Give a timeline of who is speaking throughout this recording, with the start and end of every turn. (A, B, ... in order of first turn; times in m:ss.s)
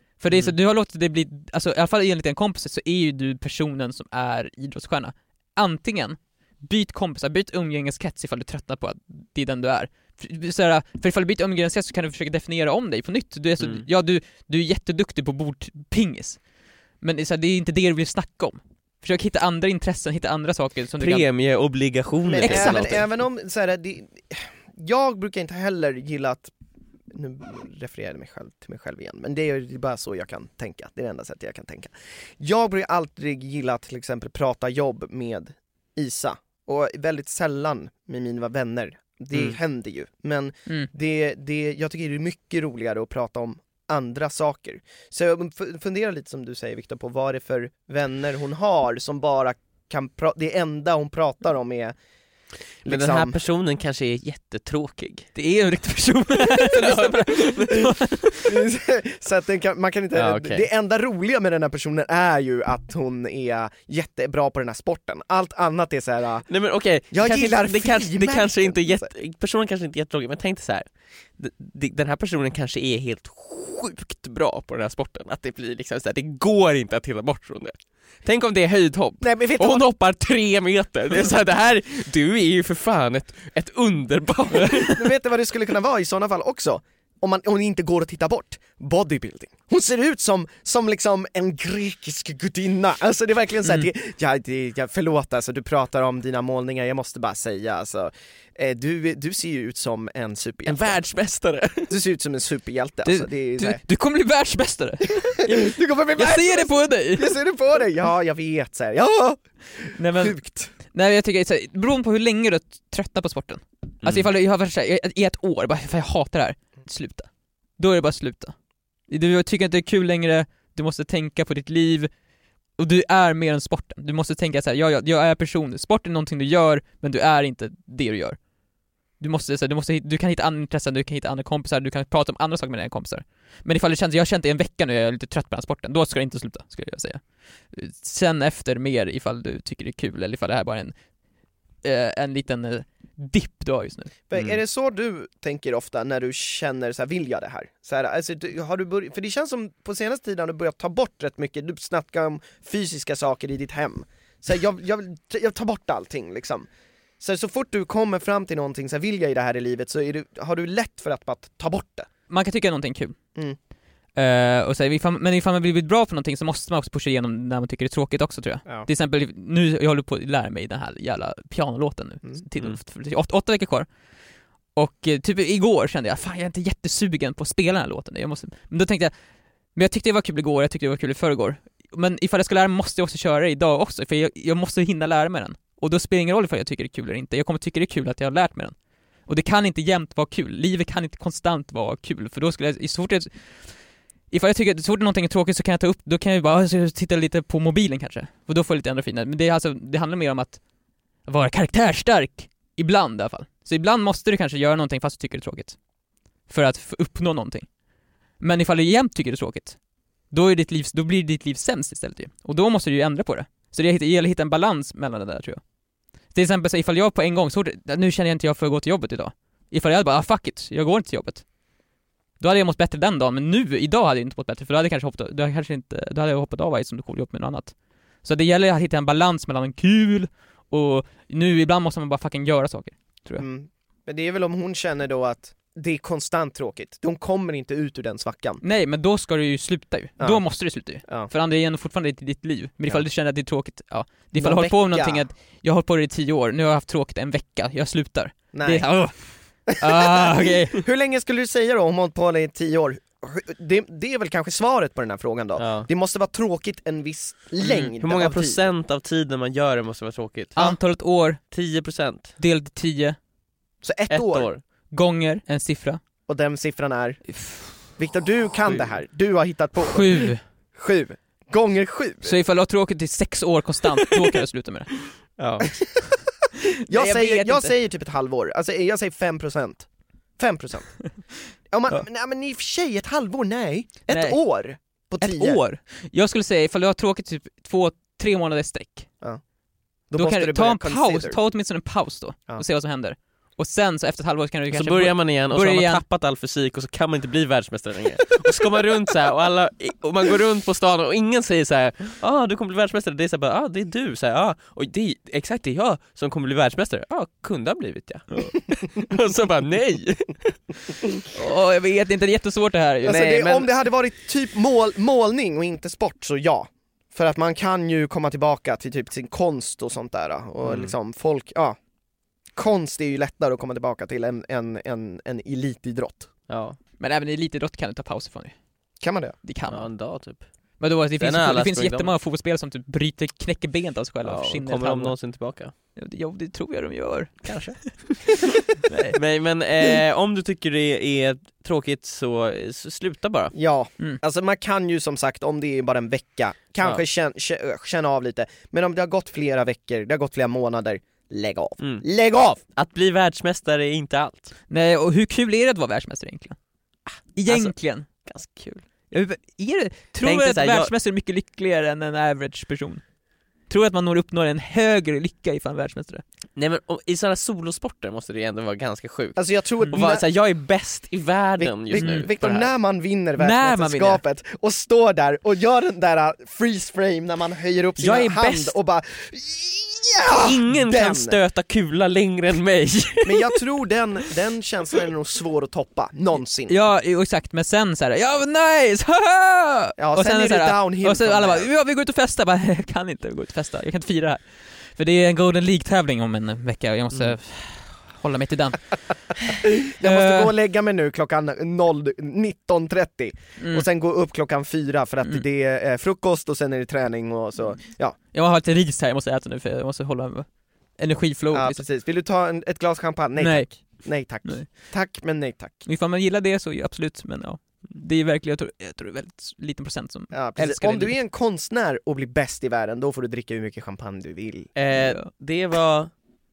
0:00.2-0:16.4 A
0:13.6-0:13.8 B
0:17.0-0:21.3 A
0:21.0-0:23.0 B
0:22.3-0:26.5 C
0:22.4-0:23.0 A
0:27.1-0:51.9 C
0:39.3-0:39.6 B
0:52.8-0:53.4 C
0:52.9-0:55.3 B
0:55.4-0:58.4 A
0:56.6-0:57.9 B
0:58.4-1:06.5 C
1:00.2-1:00.6 B
1:06.5-1:25.0 B
1:07.1-1:09.1 C
1:19.2-1:19.9 C
1:24.8-1:41.0 C
1:40.7-1:41.9 B
1:41.9-1:43.8 C
1:43.0-1:47.4 A
1:45.4-1:50.7 C
1:50.0-1:58.5 A
1:54.0-1:54.3 B
1:59.1-2:02.1 A
2:02.8-2:08.4 A
2:09.2-2:21.0 A
2:21.8-2:24.1 A
2:24.3-2:36.7 C
2:37.2-2:42.1 C
2:42.3-2:43.2 A
2:44.2-2:53.9 A
2:54.8-2:59.1 A
2:59.8-3:08.8 A
3:09.3-3:13.8 A
3:14.3-3:20.6 A
3:21.3-3:25.8 A
3:26.5-3:27.7 A
3:28.4-3:29.8 A
3:30.3-3:35.6 A
3:36.3-3:41.5 A
3:42.4-3:53.5 A
3:53.4-3:58.6 C
3:58.6-4:10.8 A
4:00.2-4:01.3 C
4:04.4-4:05.2 C
4:08.5-4:08.9 C
4:09.7-4:18.6 C
4:15.6-4:15.9 B
4:17.6-4:20.7 B
4:20.6-4:21.4 A
4:21.5-4:22.4 B
4:22.4-4:23.2 A
4:23.8-4:24.5 C
4:24.1-4:24.6 B
4:24.9-4:26.0 A
4:26.3-4:32.4 C
4:27.3-4:27.8 A
4:29.8-4:30.4 A
4:32.2-4:34.9 A
4:35.4-4:35.8 B
4:35.6-4:36.0 C
4:36.9-4:37.7 A
4:36.9-4:39.9 C
4:40.4-4:41.0 C
4:41.7-4:45.6 C
4:44.1-4:44.4 A
4:45.2-4:49.1 A
4:50.1-4:51.4 C
4:50.2-4:56.0 A
4:54.7-5:11.2 B
5:11.3-5:13.7 A
5:13.0-5:21.8 C
5:20.6-5:20.9 B
5:22.6-5:26.3 C
5:26.5-5:26.8 B
5:27.0-5:28.6 A
5:29.0-5:29.4 C
5:29.4-5:29.9 A
5:29.7-5:30.5 B
5:30.8-5:35.2 A
5:31.2-5:32.1 B
5:34.2-5:35.7 B
5:36.0-5:38.0 A
5:37.4-5:38.4 B
5:38.9-5:39.2 A
5:39.1-5:43.6 B
5:43.5-5:52.6 C
5:51.8-5:52.0 B
5:52.8-5:54.5 B
5:54.7-5:56.6 A
5:57.4-5:58.1 A
5:57.5-5:57.7 B
5:58.2-5:58.8 B
5:59.1-6:03.0 A
6:00.2-6:00.9 B
6:03.7-6:06.2 A
6:06.6-6:12.7 B
6:09.4-6:10.2 C
6:11.6-6:21.4 C
6:12.0-6:12.3 A
6:13.4-6:14.2 A
6:18.0-6:18.7 B
6:20.3-6:23.6 B
6:23.2-6:26.8 C
6:26.7-6:39.4 A
6:30.0-6:31.7 C
6:39.6-6:48.2 C
6:40.0-6:40.5 A
6:43.6-6:43.9 A
6:48.3-6:51.8 A
6:51.5-6:55.9 C
6:53.4-6:54.7 A
6:55.8-7:01.2 A
7:00.3-7:04.7 C
7:04.8-7:06.1 B
7:04.9-7:05.3 A